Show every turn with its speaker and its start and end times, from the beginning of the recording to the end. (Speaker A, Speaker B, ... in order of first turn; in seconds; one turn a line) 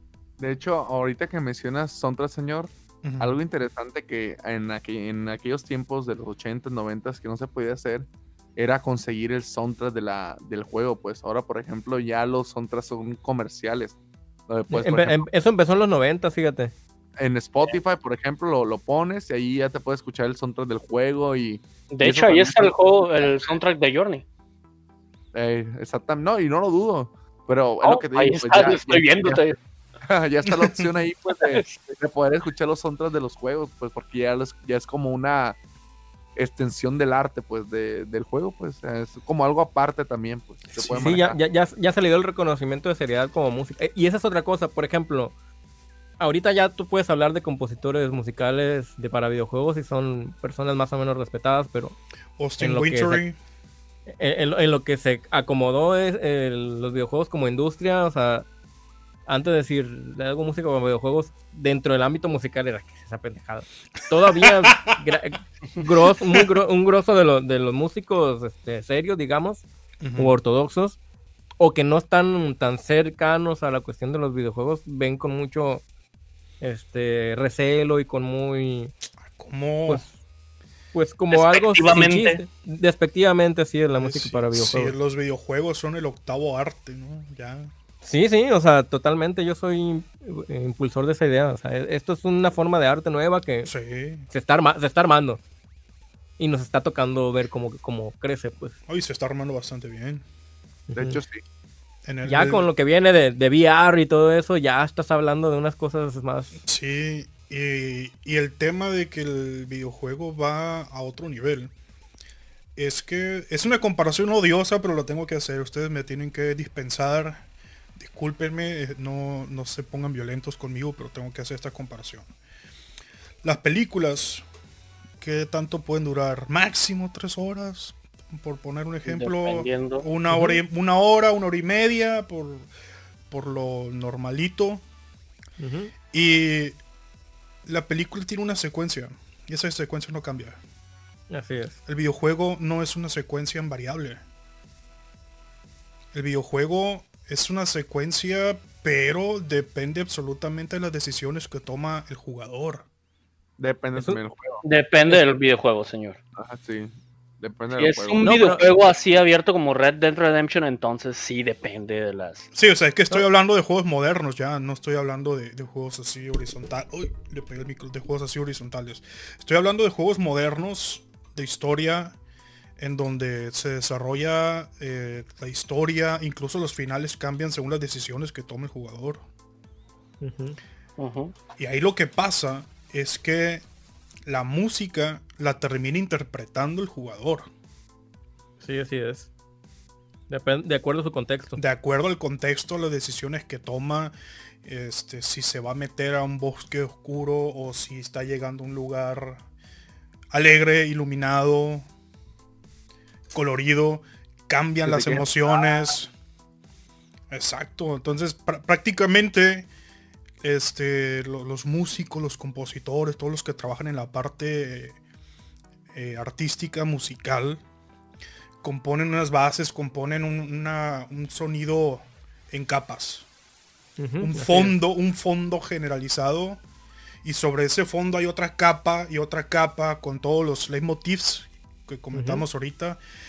Speaker A: 0.4-14.0
Speaker B: 3.0-3.4
Speaker A: 14.5-15.2
Speaker C: 14.7-16.7
Speaker A: 17.2-23.6
Speaker D: 21.9-24.2
Speaker A: 25.3-35.6
Speaker D: 27.8-29.6
Speaker D: 31.3-31.8
Speaker A: 36.4-41.4
Speaker B: 40.7-41.1
Speaker C: 41.0-45.3
Speaker C: 46.2-52.0
Speaker B: 52.4-53.4
Speaker C: 52.6-53.2
Speaker C: 54.2-58.5
Speaker C: 59.3-69.6
Speaker B: 64.4-65.0
Speaker B: 70.0-70.4
Speaker C: 70.2-71.0
Speaker C: 71.6-75.8
Speaker C: 76.6-78.9
Speaker B: 79.3-80.0
Speaker C: 80.9-84.9
Speaker D: 81.3-82.4
Speaker B: 84.0-87.7
Speaker C: 88.0-93.7
Speaker B: 93.7-94.3
Speaker C: 94.3-95.4
Speaker C: 96.4-98.7
Speaker B: 98.9-100.2
Speaker C: 100.9-101.2
Speaker A: 101.0-101.4
Speaker B: 102.0-102.7
Speaker C: 102.2-106.6
Speaker B: 106.6-111.7
Speaker B: 112.8-117.5
Speaker B: 118.0-122.3
Speaker B: 123.4-124.4
Speaker B: 125.2-132.7
Speaker D: 129.0-130.1
Speaker C: 130.3-130.6
Speaker B: 133.3-134.8
Speaker C: 135.6-135.9
Speaker B: 136.1-136.8
Speaker B: 137.7-140.6
Speaker C: 141.3-141.8
Speaker B: 141.9-144.2
Speaker B: 146.1-152.8
Speaker A: 153.6-154.6
Speaker D: 154.6-156.2
Speaker A: 156.3-158.3
Speaker D: 157.7-162.5
Speaker C: 158.2-158.7
Speaker B: 162.5-172.2
Speaker B: 172.8-179.2
Speaker C: 180.2-180.6
Speaker D: 181.0-181.3
Speaker B: 181.6-183.6
Speaker B: 184.2-187.5
Speaker C: 188.6-189.3
Speaker C: 190.3-191.6
Speaker B: 191.6-199.4
Speaker B: 200.3-201.8
Speaker B: 203.3-206.1
Speaker A: 204.8-205.3
Speaker B: 207.3-209.7
Speaker B: 210.4-215.0
Speaker B: 215.9-217.6
Speaker B: 218.6-223.2
Speaker C: 224.0-224.7
Speaker B: 224.2-226.6
Speaker B: 227.2-233.0
Speaker C: 232.1-232.4